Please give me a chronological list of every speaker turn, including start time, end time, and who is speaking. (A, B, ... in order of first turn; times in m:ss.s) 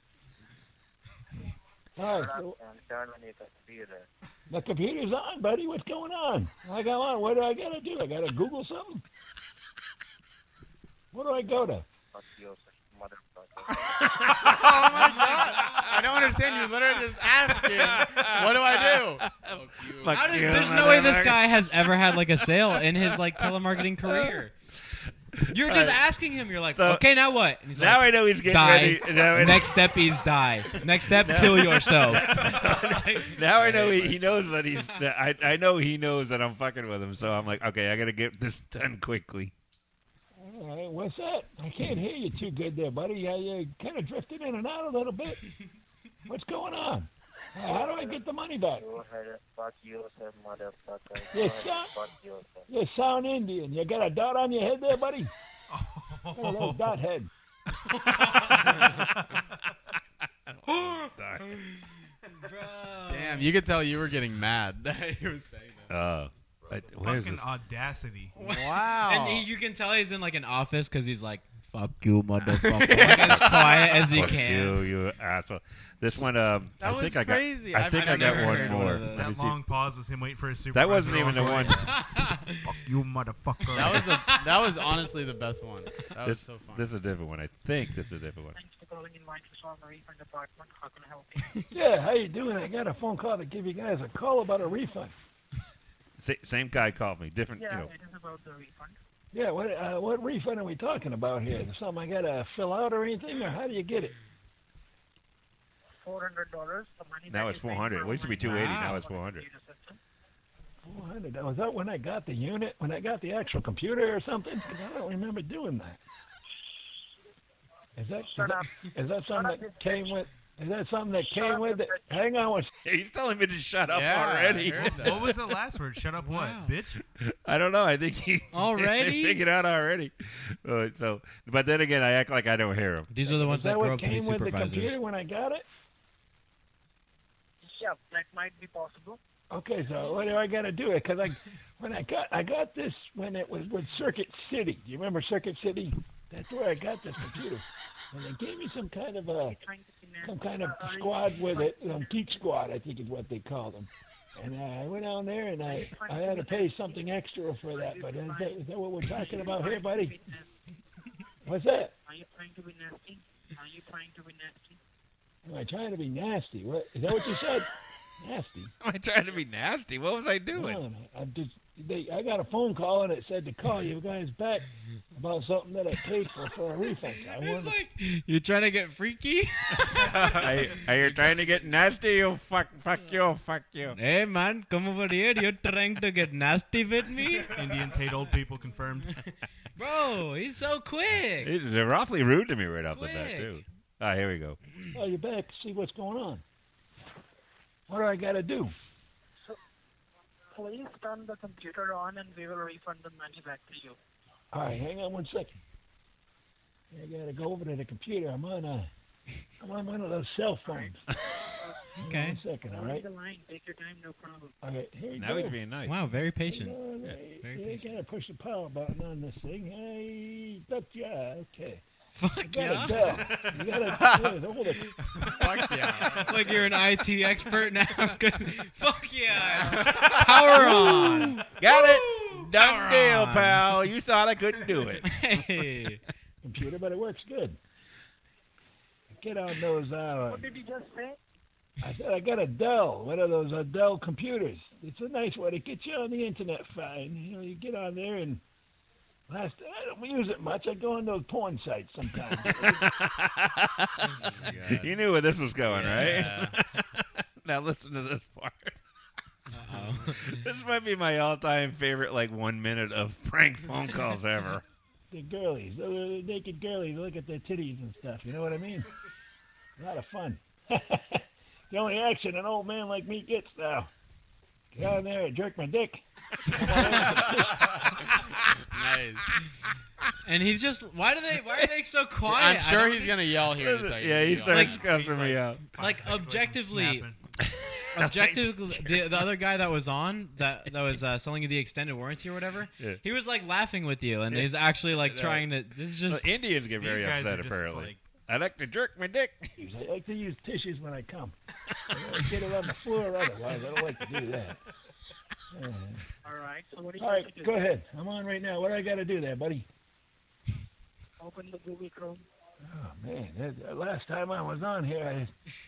0:02.0-0:02.6 A
0:02.1-0:04.1 B
0:04.5-0:09.0 A
0:11.1-0:11.8 A
0:12.1-0:13.9 B
0:14.0-0:16.3 C
0:14.4-0:20.5 D
0:17.2-0:21.4 C
0:20.1-0:24.5 E
0:22.8-0:23.4 C
0:24.0-0:24.4 C
0:25.4-0:26.0 C
0:25.5-0:33.2 E
0:26.7-0:27.1 C
0:27.7-0:29.8 C
0:31.1-0:39.5 C
0:33.4-0:34.4 D
0:40.4-0:45.4 A
0:46.3-0:48.9 A
0:47.6-0:52.7 B
0:51.3-0:51.9 A
0:52.7-0:55.3 A
0:55.7-0:57.0 F
0:56.4-0:57.3 A
0:57.9-0:58.8 E
0:58.5-0:59.0 C
1:00.5-1:01.6 C
1:00.7-1:01.6 E
1:02.4-1:03.5 E
1:03.1-1:05.9 D
1:05.9-1:07.5 C
1:07.0-1:08.4 F
1:08.4-1:14.8 E
1:08.4-1:09.5 D
1:12.4-1:14.3 D
1:13.1-1:19.6 C
1:16.8-1:19.0 D
1:18.0-1:19.3 E
1:19.1-1:21.8 F
1:20.7-1:21.9 C
1:21.8-1:22.7 E
1:22.6-1:24.1 F
1:23.7-1:26.9 D
1:23.9-1:24.5 E
1:26.2-1:28.6 C
1:28.5-1:31.5 G
1:31.7-1:35.1 A
1:36.2-1:37.9 C
1:37.6-1:39.0 G
1:39.3-1:44.1 A
1:46.0-1:50.0 G
1:47.3-1:49.4 C
1:48.4-1:49.0 E
1:50.8-1:56.0 A
1:58.0-2:02.7 A
1:58.2-1:58.6 B
1:59.3-2:00.2 B
2:01.4-2:01.7 B
2:02.8-2:05.3 C
2:03.9-2:05.4 D
2:05.0-2:07.0 F
2:06.2-2:06.7 E
2:07.2-2:13.1 C
2:08.5-2:09.4 E
2:13.1-2:15.0 E
2:13.2-2:15.6 A
2:17.6-2:19.2 G
2:19.5-2:29.6 A
2:29.4-2:32.5 G
2:30.2-2:40.2 A
2:35.6-2:37.2 G
2:37.7-2:40.5 G
2:41.5-2:41.9 A
2:42.0-2:44.8 G
2:45.4-2:47.7 A
2:48.2-2:48.7 A
2:48.8-2:50.8 C
2:50.5-2:57.8 A
2:57.2-3:00.8 E
3:00.0-3:04.0 C
3:04.0-3:07.5 E
3:07.5-3:09.2 F
3:09.8-3:11.5 E
3:11.4-3:14.6 C
3:12.9-3:13.6 E
3:14.9-3:16.4 A
3:17.9-3:18.7 A
3:20.5-3:24.0 G
3:24.5-3:25.5 A
3:26.9-3:28.9 A
3:29.6-3:31.0 A
3:30.6-3:30.9 G
3:32.0-3:33.1 A
3:32.0-3:32.4 E
3:32.7-3:34.6 G
3:34.6-3:35.6 A
3:35.2-3:36.0 C
3:35.8-3:36.8 E
3:36.4-3:41.8 A
3:37.4-3:37.8 E
3:42.2-3:43.6 E
3:42.4-3:44.9 A
3:45.2-3:46.6 D
3:46.2-3:53.6 E
3:49.5-3:50.6 D
3:51.6-3:55.1 C
3:55.0-3:56.0 E
3:56.4-3:57.6 A
3:59.1-4:00.5 A
4:00.3-4:01.2 G
4:01.8-4:08.4 A
4:09.3-4:12.8 A
4:12.4-4:18.8 C
4:14.2-4:14.9 D
4:15.7-4:16.5 D
4:19.5-4:20.4 E
4:20.0-4:24.6 C
4:25.1-4:28.9 A
4:29.8-4:33.9 A
4:34.7-4:37.9 A
4:38.7-4:39.3 D
4:40.2-4:43.2 E
4:42.2-4:45.4 D
4:43.5-4:45.6 C
4:44.5-4:44.8 E
4:45.1-4:47.2 F
4:45.8-4:47.1 E
4:47.4-4:49.3 C
4:48.0-4:56.3 E
4:54.3-4:55.5 C
4:56.1-4:59.5 C
4:56.8-4:58.0 F
4:59.6-5:01.3 A
5:01.9-5:04.6 A
5:05.5-5:06.0 A
5:06.2-5:07.6 G
5:07.0-5:09.7 A
5:11.2-5:12.2 G
5:12.7-5:15.3 A